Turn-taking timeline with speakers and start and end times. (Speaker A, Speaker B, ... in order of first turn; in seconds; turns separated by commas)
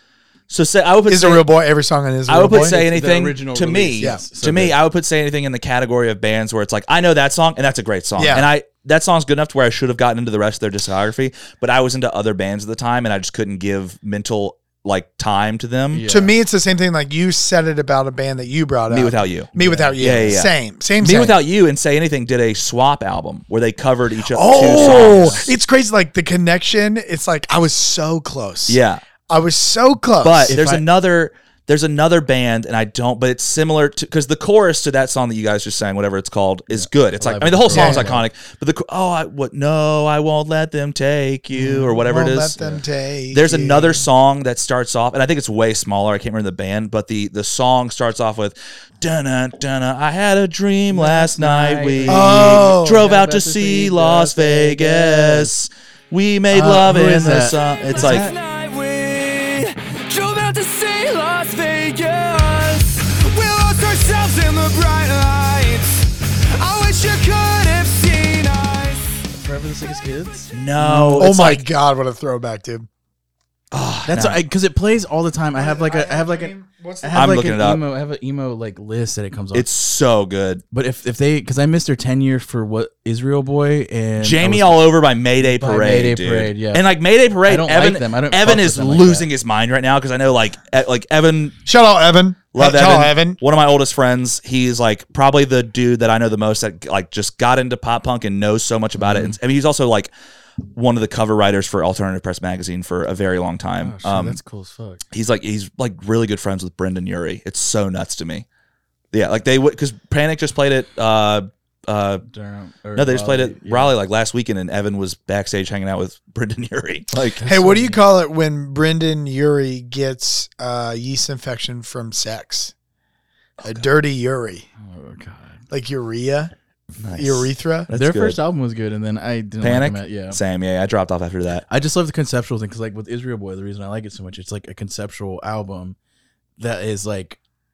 Speaker A: 0.5-1.4, Speaker B: 1.1-2.8, Speaker A: 2.3-16.1, Speaker C: 2.4-4.8, Speaker B: 8.2-8.5, Speaker C: 15.9-16.3, Speaker B: 16.1-21.4, Speaker A: 18.9-25.5, Speaker C: 19.6-20.4, Speaker B: 24.3-30.6, Speaker C: 24.5-25.5, Speaker A: 28.7-29.0, Speaker A: 30.2-42.6, Speaker C: 30.5-30.8, Speaker C: 36.8-38.3, Speaker B: 37.7-38.1, Speaker B: 41.6-44.0, Speaker A: 43.3-58.3, Speaker C: 50.9-55.5, Speaker B: 52.1-53.1, Speaker C: 56.5-58.3, Speaker D: 57.9-69.2, Speaker C: 69.3-71.3, Speaker A: 70.5-71.7, Speaker B: 71.2-72.9, Speaker A: 73.7-74.4, Speaker C: 74.1-79.7, Speaker B: 75.6-77.4, Speaker A: 77.1-77.8, Speaker A: 79.5-80.6, Speaker C: 80.7-84.9, Speaker A: 84.2-91.6, Speaker C: 85.4-86.9, Speaker C: 87.5-89.3, Speaker B: 91.7-93.4, Speaker A: 92.5-100.1, Speaker C: 99.0-99.4, Speaker A: 100.7-104.4, Speaker C: 103.8-105.0, Speaker A: 105.1-108.5, Speaker A: 109.1-112.2, Speaker C: 112.3-113.9, Speaker A: 113.0-117.4, Speaker C: 117.4-118.0, Speaker B: 117.5-122.7, Speaker B: 123.6-124.7, Speaker C: 124.8-125.6, Speaker B: 125.7-126.5, Speaker A: 127.0-128.4, Speaker B: 127.2-127.9, Speaker C: 127.9-130.4, Speaker A: 129.6-131.7, Speaker C: 131.7-136.0, Speaker C: 136.6-137.4